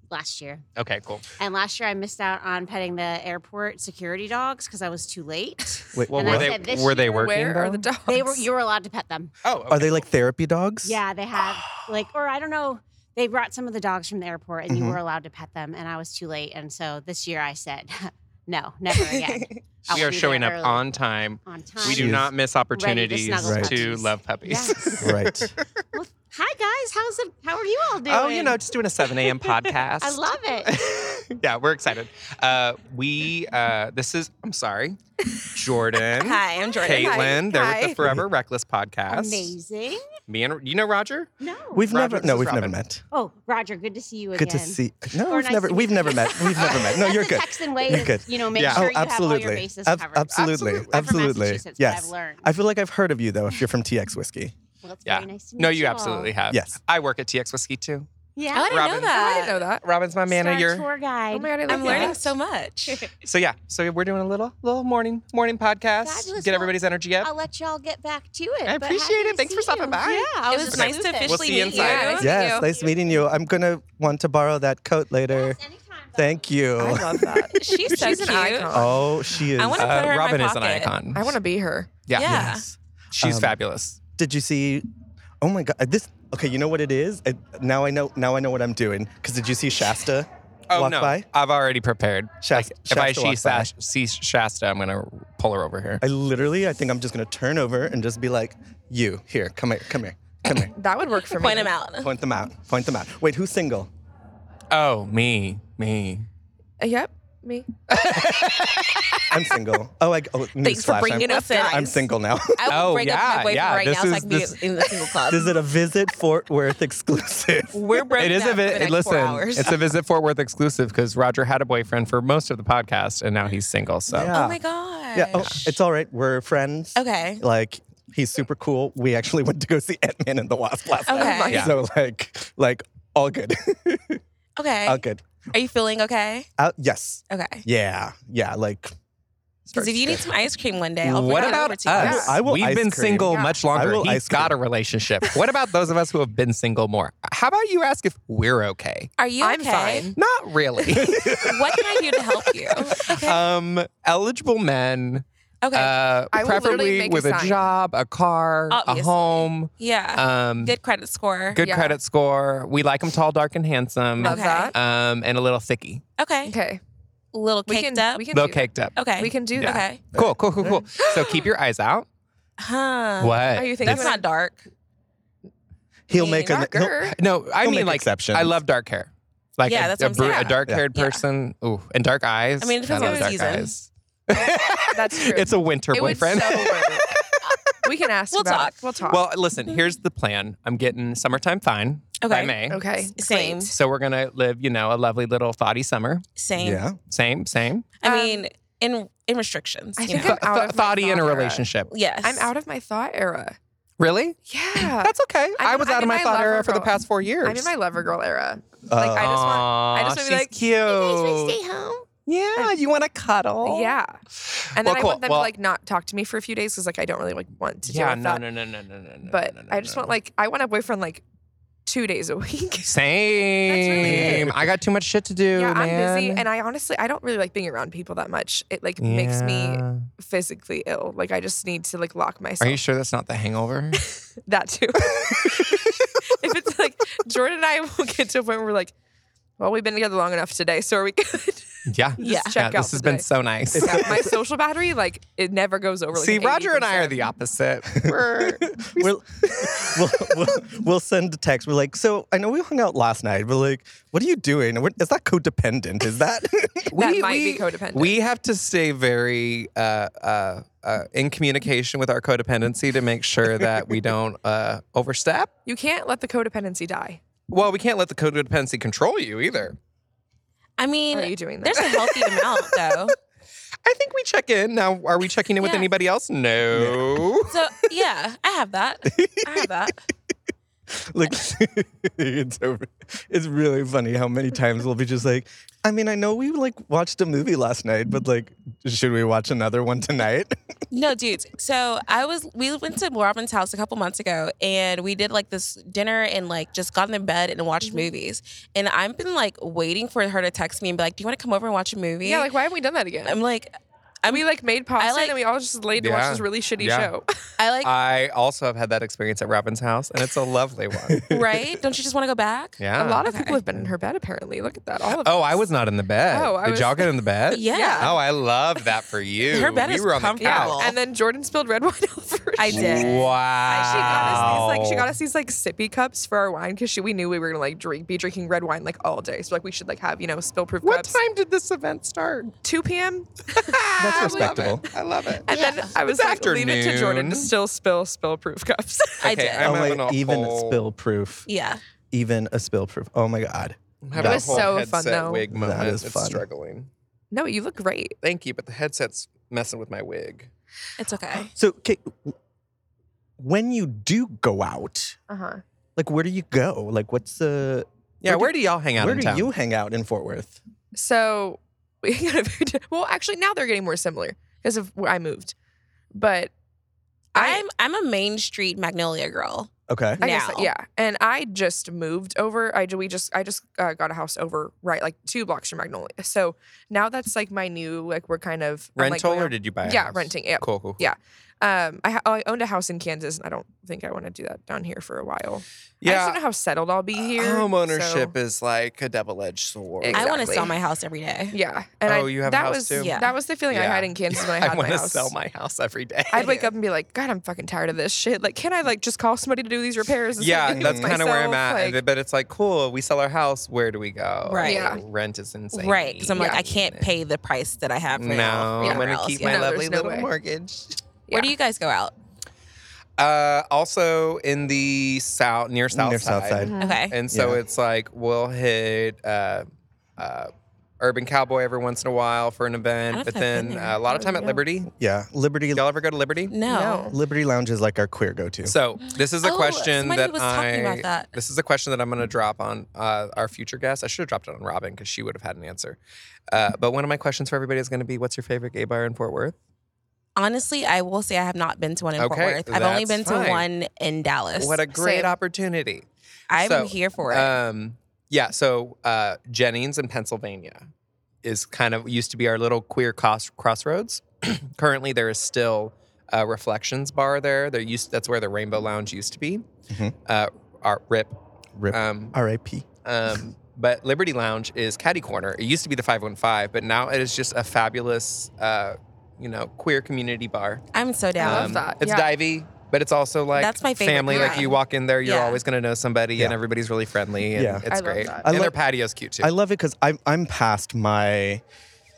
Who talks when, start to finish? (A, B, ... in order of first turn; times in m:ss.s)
0:00.1-0:00.6 A
0:00.8-0:01.2 B
0:01.4-0:07.2 A
0:05.9-0:06.6 C
0:06.1-0:07.8 B
0:06.8-0:08.4 D
0:08.0-0:09.3 A
0:09.4-0:10.1 B
0:09.7-0:11.0 C
0:10.8-0:20.9 A
0:14.7-0:15.0 C
0:18.9-0:19.5 E
0:19.9-0:25.6 B
0:21.4-0:25.2 A
0:21.8-0:22.3 C
0:23.4-0:23.8 C
0:25.0-0:25.5 C
0:25.9-0:30.9 A
0:28.0-0:39.5 B
0:36.0-0:38.0 E
0:36.8-0:37.3 D
0:38.0-0:38.2 C
0:39.1-0:40.0 A
0:40.3-0:41.3 B
0:41.4-0:41.8 A
0:41.7-0:43.0 C
0:41.9-0:42.8 B
0:43.1-0:52.4 A
0:44.3-0:54.5 C
0:48.5-0:49.0 B
0:54.8-0:56.3 A
0:55.0-0:58.1 B
0:56.5-0:56.8 C
0:58.4-0:58.9 A
0:58.5-0:59.7 E
0:58.7-0:59.2 B
0:59.0-0:59.8 D
0:59.8-1:00.9 B
1:00.3-1:02.1 A
1:01.3-1:02.3 D
1:01.7-1:03.0 E
1:01.8-1:02.1 B
1:03.2-1:07.3 B
1:06.0-1:13.2 A
1:08.6-1:12.2 B
1:10.5-1:12.7 E
1:11.7-1:12.6 D
1:12.2-1:15.6 C
1:15.3-1:16.4 A
1:16.1-1:17.5 C
1:16.8-1:19.1 D
1:17.5-1:20.9 E
1:18.7-1:20.1 C
1:19.7-1:21.4 B
1:21.1-1:21.9 D
1:22.1-1:22.6 B
1:22.1-1:22.6 E
1:22.2-1:23.6 C
1:23.1-1:24.0 B
1:24.1-1:24.8 C
1:25.4-1:31.3 C
1:30.7-1:36.0 B
1:32.4-1:33.7 C
1:36.0-1:40.7 C
1:40.7-1:41.7 D
1:41.2-1:42.1 E
1:42.0-1:43.9 C
1:44.7-1:46.3 B
1:46.8-1:47.7 D
1:47.9-1:49.4 B
1:49.3-1:52.7 C
1:50.6-1:52.0 E
1:51.0-1:52.0 D
1:52.5-1:55.5 E
1:52.7-1:54.6 B
1:55.3-1:58.1 C
1:57.7-1:59.8 E
1:58.1-2:04.3 B
2:04.1-2:04.6 C
2:04.3-2:05.7 E
2:05.1-2:14.2 C
2:07.0-2:07.4 E
2:11.1-2:11.6 E
2:11.1-2:11.8 D
2:11.4-2:11.7 B
2:14.6-2:15.0 E
2:14.8-2:15.2 C
2:15.5-2:16.5 E
2:16.6-2:18.9 C
2:17.3-2:17.6 E
2:19.7-2:20.3 C
2:19.7-2:22.3 E
2:21.0-2:29.1 B
2:21.3-2:22.3 D
2:21.9-2:24.6 C
2:23.3-2:23.6 D
2:29.2-2:30.1 E
2:29.4-2:30.2 D
2:30.1-2:31.5 B
2:30.8-2:33.4 E
2:30.9-2:31.8 C
2:32.9-2:40.8 B
2:35.6-2:35.9 E
2:36.3-2:37.7 D
2:38.7-2:41.6 E
2:41.5-2:46.0 B
2:41.6-2:42.0 D
2:44.2-2:44.7 D
2:44.2-2:44.7 E
2:46.2-2:46.5 E
2:46.4-2:46.8 D
2:47.3-2:48.2 E
2:47.6-2:49.9 D
2:48.3-2:49.0 B
2:48.9-2:50.0 E
2:49.6-2:52.1 B
2:51.0-2:51.5 E
2:52.6-2:54.6 E
2:53.2-2:54.1 B
2:53.5-2:54.2 D
2:56.1-2:58.5 C
2:56.1-2:56.9 E
2:56.5-2:57.0 D
2:57.1-3:07.4 B
2:59.6-3:01.2 E
3:00.1-3:00.6 D
3:02.6-3:03.7 E
3:02.9-3:03.3 D
3:04.9-3:07.1 D
3:07.8-3:09.2 D
3:08.3-3:09.1 E
3:09.1-3:12.8 B
3:12.2-3:12.6 E
3:12.7-3:13.7 D
3:13.1-3:13.7 E
3:13.7-3:16.3 B
3:16.4-3:16.8 E
3:16.6-3:17.0 C
3:17.1-3:17.9 B
3:18.0-3:20.4 E
3:18.0-3:18.4 D
3:20.0-3:21.7 D
3:20.1-3:21.9 B
3:21.9-3:22.5 E
3:22.2-3:23.6 D
3:24.0-3:27.7 B
3:24.5-3:30.6 D
3:28.9-3:29.4 C
3:29.1-3:31.6 B
3:30.9-3:31.8 A
3:32.2-3:35.5 B
3:33.6-3:34.2 D
3:34.8-3:38.4 D
3:37.8-3:40.1 B
3:39.3-3:41.2 D
3:41.8-3:44.5 D
3:42.9-3:46.4 B
3:44.0-3:44.5 C
3:45.5-3:52.8 D
3:49.0-3:50.1 B
3:52.6-3:54.0 B
3:54.0-3:58.9 D
3:59.6-4:01.7 D
4:01.9-4:04.1 B
4:02.2-4:07.2 D
4:02.2-4:02.6 E
4:03.7-4:04.4 C
4:06.1-4:09.2 B
4:08.0-4:16.9 C
4:16.9-4:25.5 B
4:16.9-4:18.2 D
4:25.6-4:27.2 D
4:27.5-4:29.8 B
4:30.8-4:33.1 E
4:31.1-4:32.7 D
4:33.8-4:37.6 B
4:35.6-4:35.9 E
4:36.7-4:37.2 C
4:37.5-4:40.0 E
4:39.1-4:39.7 C
4:40.9-4:50.5 C
4:50.9-5:02.5 E
4:57.8-4:58.1 D
5:02.2-5:03.4 D
5:03.2-5:04.5 E
5:04.3-5:07.5 D
5:05.0-5:05.3 E
5:06.0-5:07.1 B
5:07.6-5:07.9 E
5:07.8-5:11.3 B
5:11.1-5:11.6 C
5:11.2-5:13.6 E
5:12.8-5:13.3 B
5:13.0-5:15.6 D
5:15.2-5:20.8 B
5:16.3-5:18.2 D
5:17.5-5:18.2 E
5:19.4-5:20.9 E
5:20.4-5:31.2 D
5:22.6-5:24.7 E
5:22.7-5:25.1 B
5:30.8-5:32.5 B
5:32.6-5:39.3 D
5:33.5-5:37.5 B
5:34.0-5:34.8 C
5:35.5-5:35.9 E
5:39.2-5:40.8 B
5:39.2-5:39.7 E
5:39.6-5:41.5 C
5:41.5-5:41.8 E
5:42.1-5:44.7 C
5:44.0-5:46.9 B
5:44.2-5:45.4 D
5:45.5-5:46.4 C
5:47.3-5:48.2 D
5:48.2-5:50.5 B
5:51.0-5:51.5 E
5:51.5-5:52.3 C
5:53.4-5:55.2 C
5:55.3-5:55.6 D
5:56.0-6:00.6 C
5:58.2-5:59.5 B
6:00.9-6:05.5 D
6:06.1-6:06.5 D
6:07.3-6:07.6 D
6:07.3-6:10.7 E
6:09.9-6:10.2 C
6:10.2-6:28.3 D
6:19.0-6:21.1 B
6:26.0-6:26.4 B
6:27.2-6:30.3 B
6:30.0-6:30.8 D
6:30.1-6:31.6 E
6:31.5-6:35.3 D
6:32.1-6:36.6 B
6:32.9-6:33.3 E
6:36.3-6:42.0 D
6:36.4-6:36.7 E
6:40.4-6:47.2 B
6:40.7-6:41.1 C
6:44.4-6:45.0 E
6:44.6-6:45.0 D
6:45.7-6:49.7 E
6:46.3-6:46.6 D
6:48.1-6:51.0 B
6:48.8-6:50.3 D
6:51.3-6:51.5 D
6:51.3-6:52.1 E
6:53.2-6:59.7 B
6:55.9-6:56.7 C
6:56.6-6:57.0 D
6:56.8-6:57.2 E
6:57.3-6:57.6 C
7:00.2-7:04.9 B
7:03.1-7:04.0 E
7:04.1-7:04.6 D
7:04.9-7:05.8 C
7:05.7-7:06.6 B
7:06.5-7:07.1 E
7:06.6-7:07.2 D
7:07.1-7:08.7 C
7:08.6-7:19.6 B
7:09.4-7:11.3 E
7:20.4-7:24.8 E
7:22.2-7:23.6 B
7:24.6-7:26.0 B
7:25.0-7:25.4 D
7:26.5-7:27.6 E
7:26.6-7:30.9 B
7:31.4-7:39.7 B
7:39.9-7:40.1 C
7:40.2-7:41.4 B
7:41.8-7:42.8 C
7:41.9-7:42.3 B
7:43.0-7:50.8 B
7:50.9-7:51.9 E
7:51.4-7:52.3 D
7:51.4-7:59.5 B
7:53.6-7:55.6 E
7:54.3-7:54.7 D
7:57.5-7:57.9 C
7:57.9-7:58.5 D
7:58.4-7:58.8 C
7:59.4-8:01.6 C